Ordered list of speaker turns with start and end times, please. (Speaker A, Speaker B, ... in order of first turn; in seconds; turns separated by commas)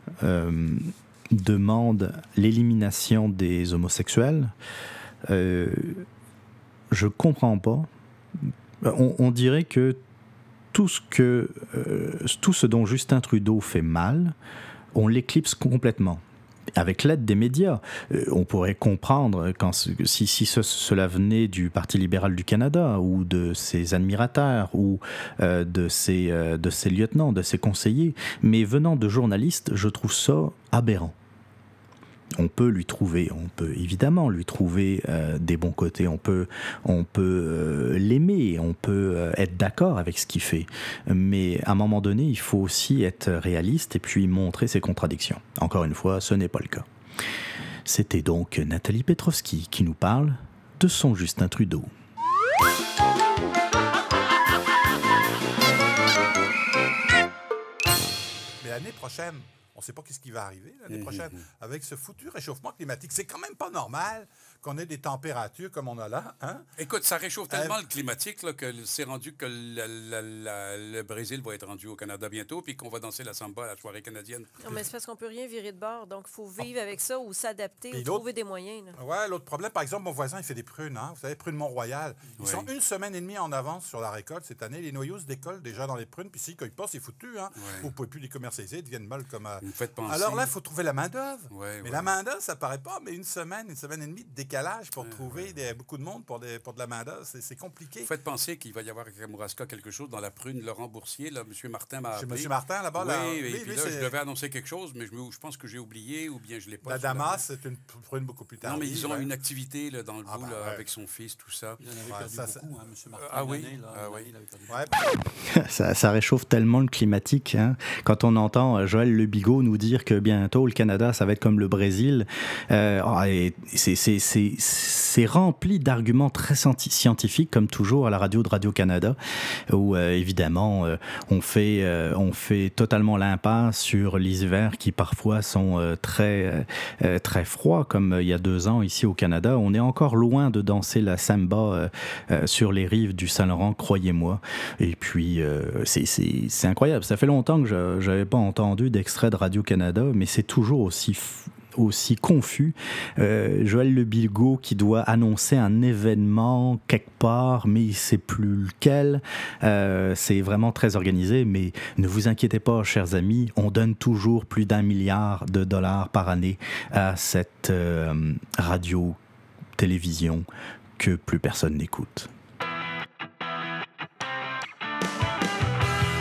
Speaker A: 0.2-4.5, Speaker A: 5.3-6.1, Speaker A: 6.9-7.9, Speaker A: 8.8-10.0, Speaker A: 10.7-14.3, Speaker A: 14.9-16.2, Speaker A: 16.8-31.1, Speaker A: 32.4-46.9, Speaker A: 47.9-51.9, Speaker B: 58.6-66.7, Speaker C: 60.9-61.4, Speaker C: 66.8-74.8, Speaker B: 67.5-67.8, Speaker D: 74.6-79.0, Speaker B: 77.9-78.3, Speaker B: 78.9-98.1, Speaker C: 82.4-82.7, Speaker C: 87.6-87.9, Speaker C: 89.6-90.5, Speaker C: 91.5-92.1, Speaker C: 95.1-95.5, Speaker C: 98.0-107.5, Speaker B: 102.1-104.1, Speaker B: 106.8-109.3, Speaker C: 108.6-111.8, Speaker B: 110.2-110.9, Speaker E: 111.8-114.7, Speaker B: 112.0-112.7, Speaker C: 113.1-114.3, Speaker B: 114.7-115.0, Speaker A: 115.4-129.2, Speaker A: 129.7-169.2, Speaker A: 169.8-170.5, Speaker A: 171.0-172.3